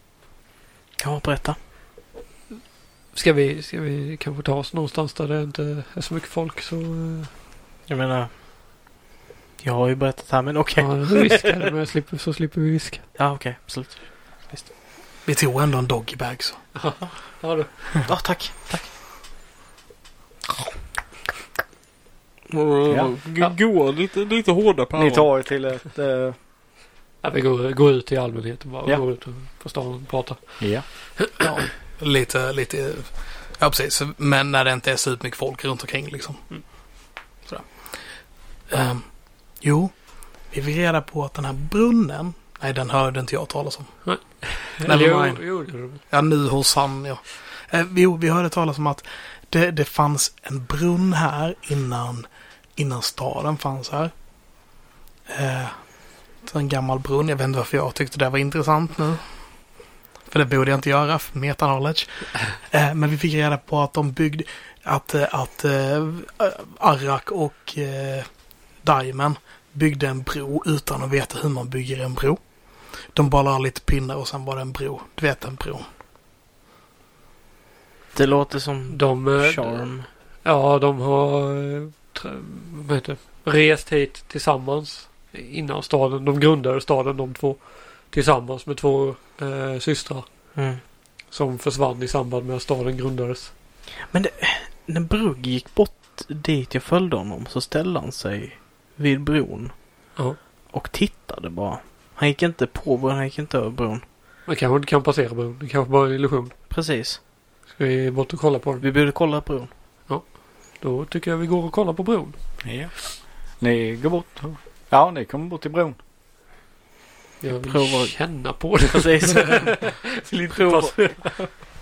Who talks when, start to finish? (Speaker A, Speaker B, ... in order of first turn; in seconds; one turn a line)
Speaker A: 1.0-1.6
Speaker B: 3.1-7.3
Speaker A: 7.9-8.3
Speaker A: 9.6-11.5
Speaker B: 10.8-13.1
Speaker A: 13.2-14.7
Speaker C: 15.3-16.7
Speaker B: 16.8-17.7
Speaker A: 18.1-18.9
Speaker A: 22.5-25.3
Speaker D: 25.0-26.4
Speaker B: 27.2-31.3
Speaker D: 30.6-30.9
Speaker C: 31.4-36.9
Speaker C: 37.4-54.1
Speaker B: 44.0-46.0
Speaker C: 55.3-75.9
Speaker A: 78.1-80.1
Speaker B: 78.9-93.5
Speaker A: 90.5-90.8
Speaker A: 94.1-100.2
Speaker A: 100.7-104.0
Speaker B: 104.5-106.5
Speaker A: 106.7-107.2
Speaker B: 107.7-108.8
Speaker A: 108.8-109.7
Speaker B: 110.1-112.6
Speaker D: 112.6-116.0
Speaker B: 117.4-121.5
Speaker A: 117.7-119.8
Speaker A: 120.5-121.1